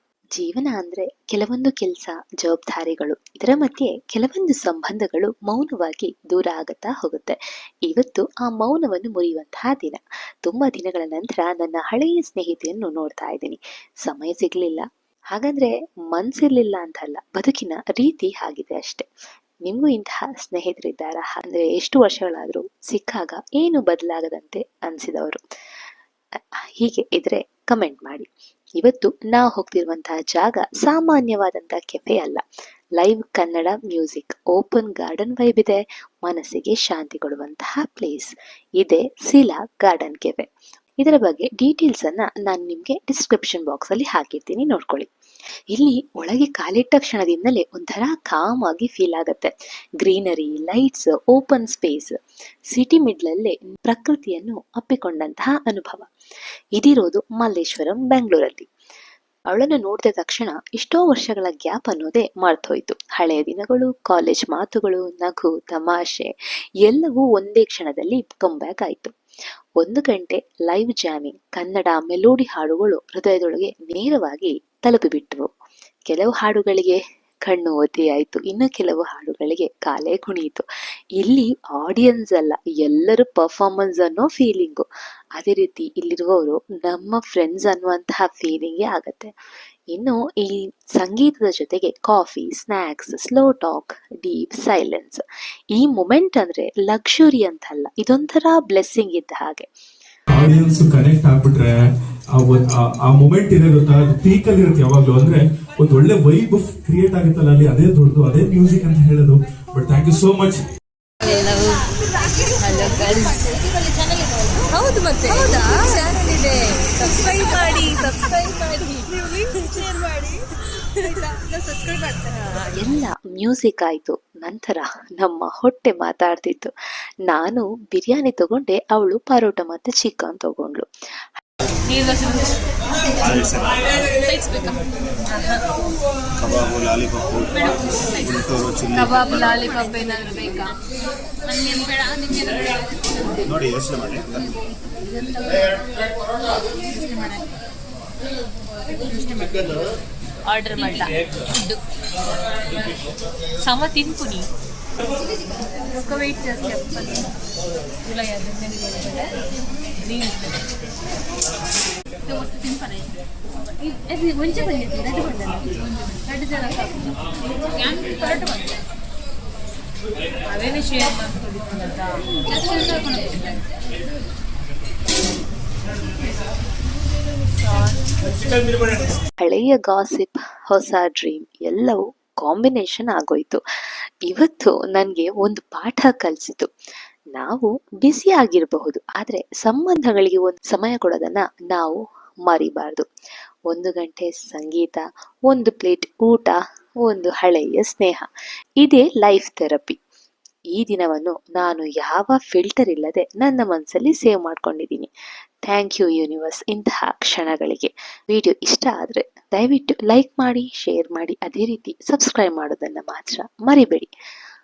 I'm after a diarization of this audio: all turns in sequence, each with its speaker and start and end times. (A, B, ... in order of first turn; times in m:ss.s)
0:00.3-0:19.1 A
0:19.6-0:25.4 A
0:26.8-0:32.4 A
0:33.0-0:40.5 A
0:41.0-0:45.1 A
0:45.7-0:52.2 A
0:52.7-0:56.1 A
0:56.8-0:58.7 A
0:59.5-1:06.3 A
1:06.8-1:09.1 A
1:09.8-1:15.5 A
1:16.1-1:20.6 A
1:21.2-1:24.8 A
1:25.4-1:29.3 A
1:29.9-1:39.7 A
1:40.3-1:50.6 B
1:51.2-1:51.9 C
1:52.6-1:53.6 C
1:54.6-1:59.8 C
2:02.6-2:06.7 A
2:07.3-2:10.8 A
2:11.9-2:12.6 C
2:13.2-2:13.9 D
2:14.2-2:14.8 C
2:15.3-2:15.6 C
2:16.4-2:17.5 D
2:17.6-2:18.3 C
2:18.2-2:19.6 D
2:18.9-2:20.8 C
2:21.5-2:22.6 C
2:23.4-2:24.4 D
2:29.1-2:29.7 C
2:30.4-2:31.8 C
2:33.6-2:34.5 C
2:35.9-2:37.2 C
2:38.1-2:39.3 C
2:40.0-2:40.5 C
2:42.3-2:42.7 C
2:43.8-2:47.1 C
2:47.8-2:48.7 C
2:50.5-2:53.5 C
2:59.4-3:03.6 A
3:04.3-3:06.7 A
3:07.3-3:13.0 A
3:13.7-3:18.3 A
3:18.8-3:20.0 A
3:20.7-3:25.1 A
3:25.7-3:34.1 A